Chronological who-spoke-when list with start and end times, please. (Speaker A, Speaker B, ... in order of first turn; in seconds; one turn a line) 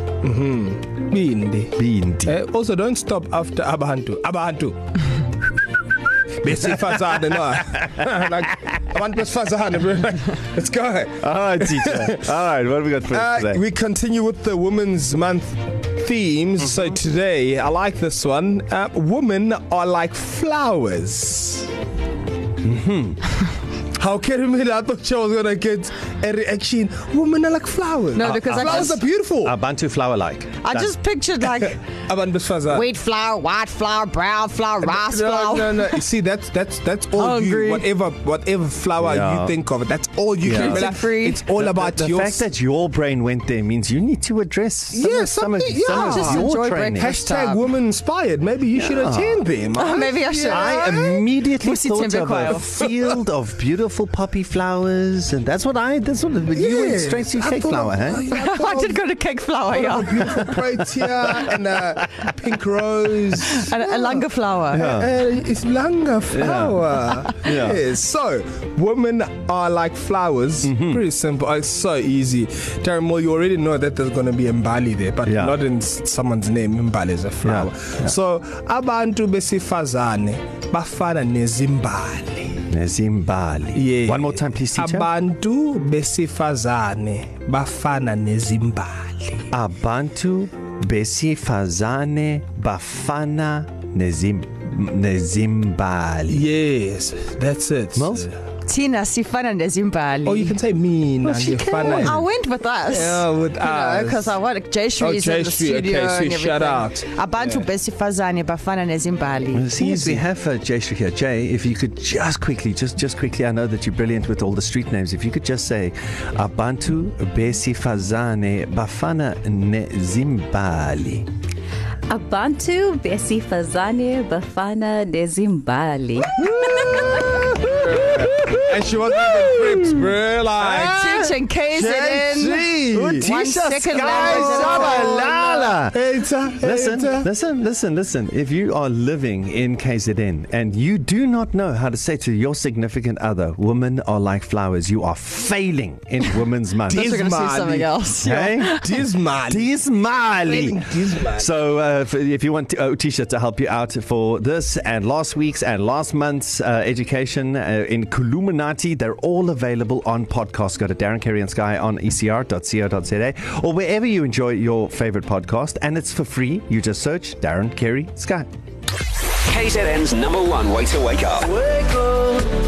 Speaker A: 0.2-4.8
Speaker B: 1.8-2.4
Speaker A: 6.4-12.2
Speaker B: 11.2-13.6
Speaker A: 13.1-21.7
Speaker B: 22.6-23.2
Speaker A: 23.9-29.6
Speaker C: 28.1-29.0
Speaker B: 28.2-30.9
Speaker C: 30.6-31.8
Speaker A: 32.1-32.9
Speaker C: 32.7-36.0
Speaker A: 34.8-42.5
Speaker C: 37.1-37.9
Speaker B: 39.0-39.5
Speaker B: 40.4-40.9
Speaker C: 40.5-41.4
Speaker B: 41.5-47.1
Speaker A: 44.9-46.5
Speaker C: 45.8-47.7
Speaker A: 47.0-50.9
Speaker B: 48.8-49.5
Speaker C: 49.8-52.7
Speaker B: 50.5-58.2
Speaker A: 56.5-59.0
Speaker C: 58.3-60.6
Speaker A: 59.7-82.7
Speaker B: 60.9-61.5
Speaker C: 63.4-64.9
Speaker B: 64.7-65.1
Speaker B: 66.3-67.8
Speaker B: 70.6-71.0
Speaker B: 75.2-75.6
Speaker B: 77.4-78.1
Speaker B: 82.7-85.1
Speaker A: 83.8-89.5
Speaker B: 89.5-96.5
Speaker A: 96.3-98.4
Speaker B: 98.0-98.3
Speaker C: 98.7-100.6
Speaker A: 100.2-102.2
Speaker C: 101.5-110.2
Speaker B: 101.6-102.2
Speaker A: 102.9-104.4
Speaker A: 105.0-107.7
Speaker B: 109.5-121.3
Speaker D: 122.1-127.0
Speaker A: 126.6-131.2
Speaker B: 126.8-130.1
Speaker B: 130.7-131.2
Speaker C: 130.8-132.7
Speaker A: 131.8-137.3
Speaker B: 132.7-136.0
Speaker C: 133.2-135.2
Speaker B: 136.6-147.1
Speaker A: 146.9-149.7
Speaker C: 146.9-148.9
Speaker B: 148.2-148.8
Speaker B: 149.5-168.5
Speaker A: 150.5-151.5
Speaker E: 169.4-171.9